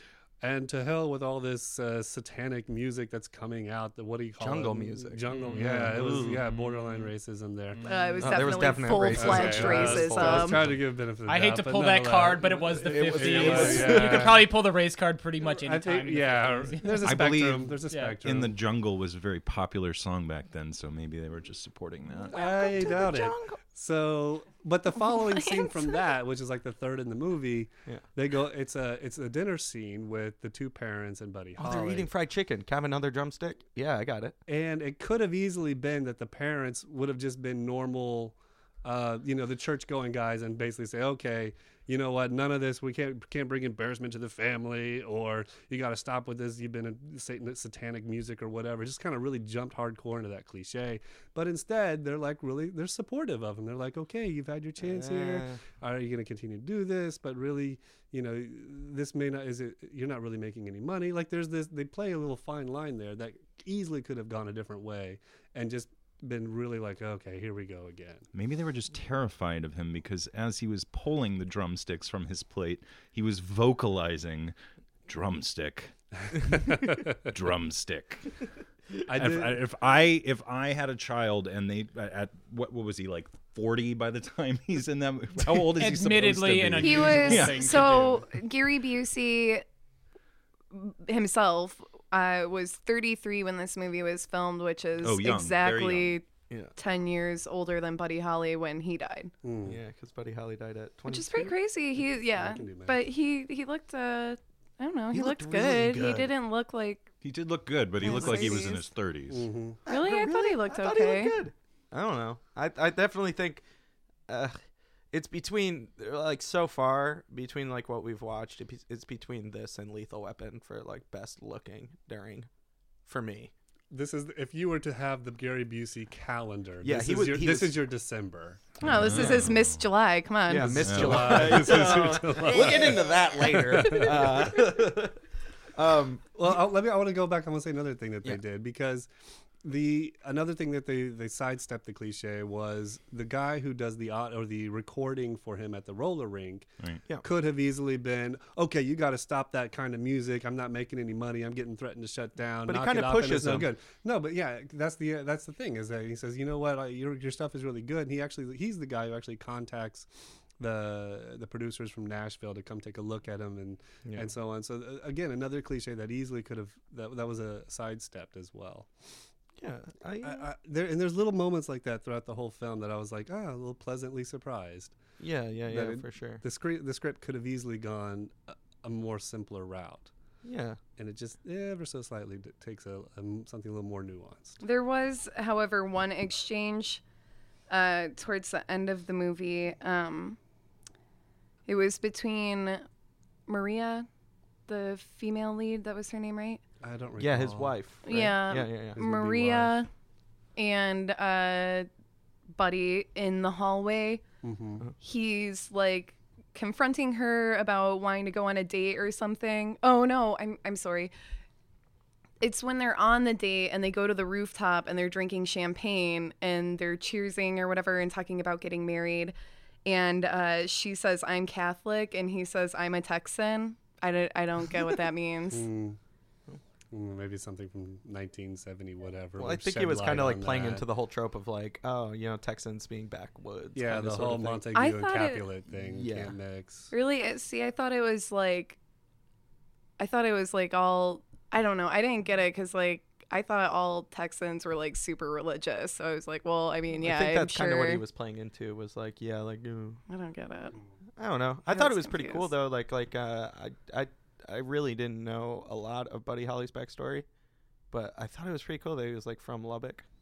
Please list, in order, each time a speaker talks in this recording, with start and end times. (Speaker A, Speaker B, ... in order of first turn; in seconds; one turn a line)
Speaker A: 0.4-7.8
Speaker B: 4.4-6.4
Speaker C: 5.3-7.1
Speaker C: 7.7-8.3
Speaker D: 7.9-10.6
Speaker B: 8.2-10.6
Speaker A: 9.1-14.5
Speaker C: 11.3-17.3
Speaker B: 12.9-14.3
Speaker E: 13.2-14.1
Speaker A: 15.5-18.5
Speaker E: 17.0-22.4
Speaker C: 17.9-18.1
Speaker A: 22.3-32.1
Speaker B: 22.3-23.6
Speaker D: 25.1-26.1
Speaker B: 31.6-34.4
Speaker A: 34.5-68.3
Speaker B: 54.8-55.6
Speaker E: 68.3-74.5
Speaker E: 75.1-75.9
Speaker E: 76.5-78.4
Speaker A: 76.6-77.0
Speaker A: 79.1-79.7
Speaker E: 79.1-87.7
Speaker C: 85.7-88.2
Speaker D: 86.8-89.6
Speaker D: 90.7-96.2
Speaker E: 95.0-96.2
Speaker D: 96.8-99.3
Speaker A: 99.4-99.8
Speaker B: 99.6-101.5
Speaker D: 101.1-107.1
Speaker A: 102.3-103.0
Speaker B: 105.1-106.3
Speaker E: 107.2-109.5
Speaker D: 108.0-108.9
Speaker A: 109.3-109.8
Speaker B: 109.8-113.6
Speaker D: 109.9-111.3
Speaker B: 114.3-114.6
Speaker B: 115.1-122.5
Speaker B: 123.1-123.5
Speaker A: 123.9-128.6
Speaker B: 126.8-127.8
Speaker E: 128.8-129.8
Speaker D: 128.8-130.9
Speaker B: 130.5-135.2
Speaker A: 130.6-134.5
Speaker E: 130.8-131.8
Speaker B: 135.7-136.2
Speaker A: 136.3-139.1
Speaker A: 139.6-146.7
Speaker A: 147.2-168.9
Speaker B: 152.7-153.7
Speaker B: 164.0-164.3
Speaker B: 169.6-170.4
Speaker A: 170.2-174.9
Speaker B: 175.2-176.4
Speaker A: 175.7-180.1
Speaker B: 180.4-180.8
Speaker A: 181.0-184.6
Speaker D: 184.6-187.0
Speaker D: 187.7-190.4
Speaker D: 191.7-192.8
Speaker D: 193.5-194.1
Speaker D: 194.7-196.6
Speaker A: 196.8-197.8
Speaker B: 197.2-199.0
Speaker D: 198.1-199.9
Speaker A: 198.9-199.7
Speaker D: 200.6-201.9
Speaker D: 202.5-204.2
Speaker A: 204.4-204.8
Speaker D: 205.0-211.1
Speaker D: 212.4-219.3
Speaker D: 219.8-225.7
Speaker A: 225.5-226.0
Speaker A: 226.9-230.8
Speaker B: 229.4-234.7
Speaker A: 233.7-236.9
Speaker D: 234.7-235.4
Speaker B: 235.9-236.3
Speaker D: 236.9-238.8
Speaker D: 240.0-248.0
Speaker B: 247.0-250.0
Speaker D: 250.1-250.8
Speaker B: 251.2-257.2
Speaker D: 251.7-252.5
Speaker B: 257.9-260.1